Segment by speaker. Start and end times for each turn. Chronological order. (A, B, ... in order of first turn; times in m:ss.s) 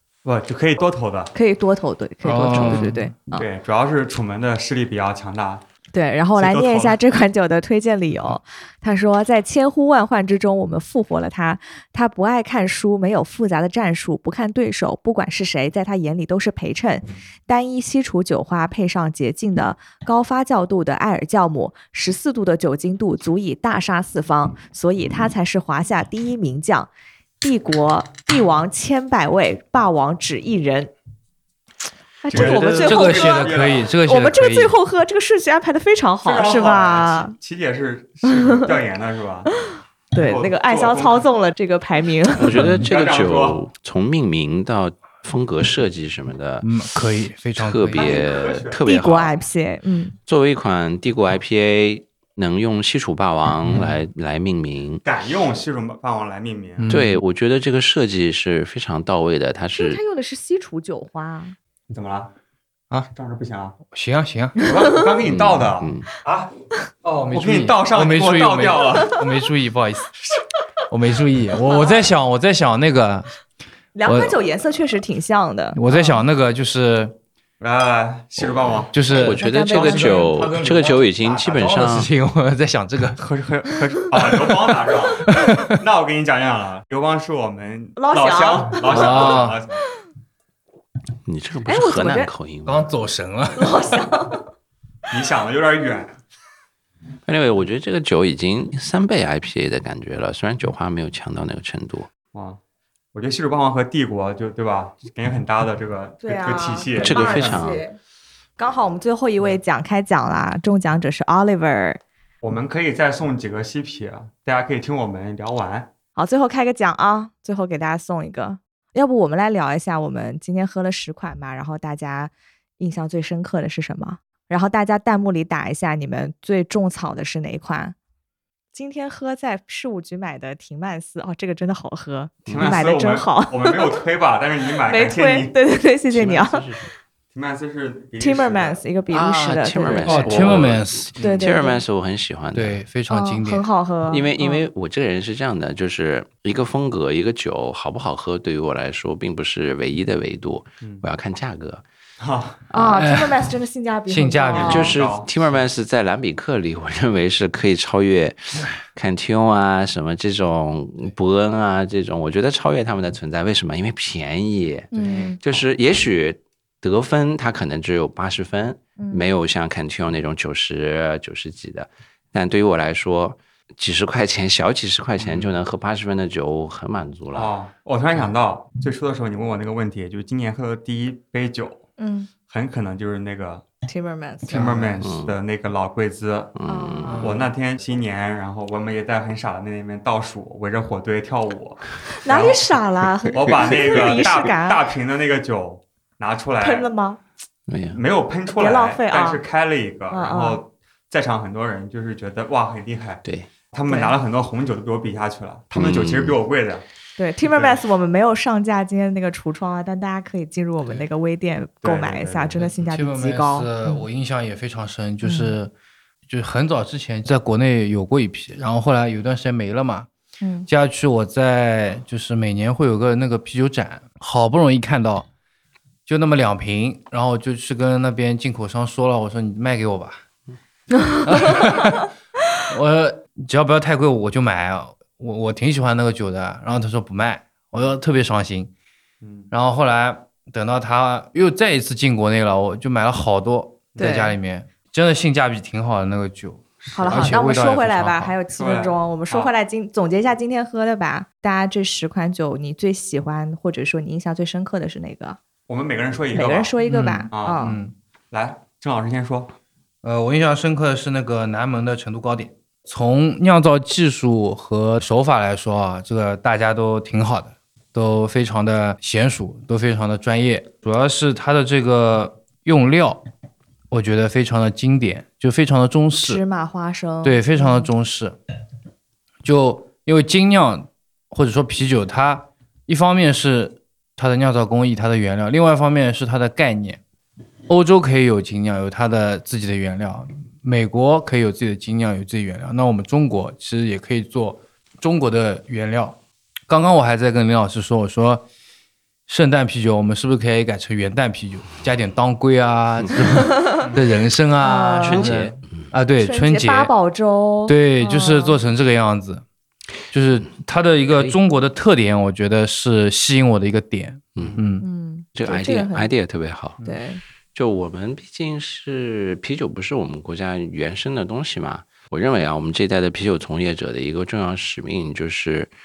0:00.2-0:01.3 A
0:01.3-0:03.4 B
0:02.2-0:03.1 C
0:03.3-0:05.6 A
0:05.9-0:26.9 B
0:06.3-0:07.0 A
0:27.4-0:30.9 B
0:32.2-0:37.4 B
0:32.3-0:33.9 A
0:32.3-0:34.7 C
0:36.2-0:39.5 A
0:40.1-0:42.6 B
0:40.2-0:41.3 A
0:42.4-0:46.7 D
0:42.6-0:42.8 C
0:42.7-0:43.6 A
0:46.6-0:48.2 C
0:47.6-0:49.4 D
0:47.9-0:48.8 A
0:48.8-0:50.2 B
0:50.3-0:55.0 D
0:55.0-0:56.9 A
0:56.8-0:57.2 C
0:56.9-1:00.0 D
0:59.8-1:01.6 B
1:01.9-1:02.3 A
1:03.1-1:03.8 A
1:03.9-1:04.6 C
1:04.6-1:06.5 A
1:04.6-1:04.9 B
1:05.2-1:06.1 D
1:07.0-1:09.2 A
1:07.2-1:10.1 C
1:10.9-1:13.3 C
1:11.7-1:12.0 B
1:13.9-1:15.8 B
1:14.0-1:14.4 C
1:15.7-1:17.2 C
1:17.6-1:19.0 A
1:18.4-1:22.1 D
1:18.9-1:23.2 C
1:19.1-1:20.3 B
1:23.2-1:29.8 A
1:25.3-1:25.8 C
1:28.0-1:29.2 B
1:28.9-1:29.6 C
1:31.3-1:32.8 D
1:31.6-1:32.3 B
1:32.6-1:33.8 C
1:33.6-1:34.5 B
1:35.1-1:36.2 A
1:37.2-1:42.1 D
1:42.3-1:42.6 A
1:43.1-1:47.7 A
1:46.2-1:48.0 B
1:47.0-1:47.8 D
1:48.6-1:52.0 B
1:52.4-1:55.9 A
1:56.2-2:07.9 B
2:08.7-2:13.9 B
2:12.4-2:12.7 D
2:12.5-2:15.5 A
2:14.8-2:16.6 B
2:16.1-2:16.9 D
2:17.3-2:18.8 A
2:18.2-2:20.4 B
2:19.1-2:22.8 D
2:20.0-2:21.1 C
2:20.3-2:21.5 A
2:21.2-2:21.8 B
2:22.5-2:23.6 C
2:23.1-2:24.6 B
2:24.1-2:31.8 D
2:32.2-2:32.6 A
2:32.7-2:34.9 B
2:32.8-2:33.5 C
2:34.1-2:34.9 C
2:34.5-2:35.3 A
2:34.6-2:57.5 D
2:44.9-2:45.4 B
2:49.0-2:49.3 B
2:55.2-2:55.5 A
2:57.3-3:01.8 A
3:02.0-3:02.3 B
3:02.5-3:03.6 A
3:03.8-3:04.7 B
3:04.5-3:05.0 C
3:04.5-3:06.6 A
3:05.0-3:05.4 D
3:06.6-3:07.4 D
3:06.7-3:07.3 B
3:07.0-3:07.4 C
3:07.1-3:12.6 A
3:12.1-3:14.9 B
3:13.3-3:16.9 A
3:16.6-3:17.2 B
3:17.7-3:18.0 D
3:17.9-3:26.8 A
3:18.6-3:19.4 B
3:20.1-3:20.6 B
3:23.2-3:23.5 D
3:23.9-3:24.1 B
3:25.7-3:26.4 D
3:27.2-3:34.0 B
3:27.5-3:27.8 A
3:31.8-3:32.8 A
3:32.8-3:35.7 C
3:35.2-3:35.6 B
3:36.3-3:40.1 C
3:40.4-3:40.7 B
3:40.7-3:45.3 C
3:46.0-3:50.2 C
3:51.0-3:51.6 B
3:51.2-3:52.1 C
3:52.7-3:58.7 C
3:59.2-3:59.5 A
3:59.5-4:08.3 C
4:04.0-4:04.3 B
4:06.8-4:07.3 A
4:06.9-4:15.4 B
4:08.6-4:09.5 A
4:15.7-4:16.7 A
4:16.3-4:17.8 B
4:16.8-4:17.9 C
4:17.3-4:17.6 A
4:18.3-4:19.6 A
4:20.0-4:33.2 C
4:33.9-4:36.4 C
4:36.2-4:37.9 B
4:37.2-4:38.4 C
4:39.4-4:47.0 C
4:47.7-4:56.2 C
4:56.7-4:58.4 C
4:59.3-5:06.9 C
5:03.4-5:03.8 B
5:04.6-5:05.3 B
5:05.0-5:05.9 D
5:06.2-5:08.6 B
5:07.7-5:09.4 C
5:10.1-5:14.8 C
5:11.1-5:11.4 D
5:14.8-5:16.1 B
5:15.4-5:16.8 D
5:16.8-5:17.2 B
5:17.6-5:25.7 D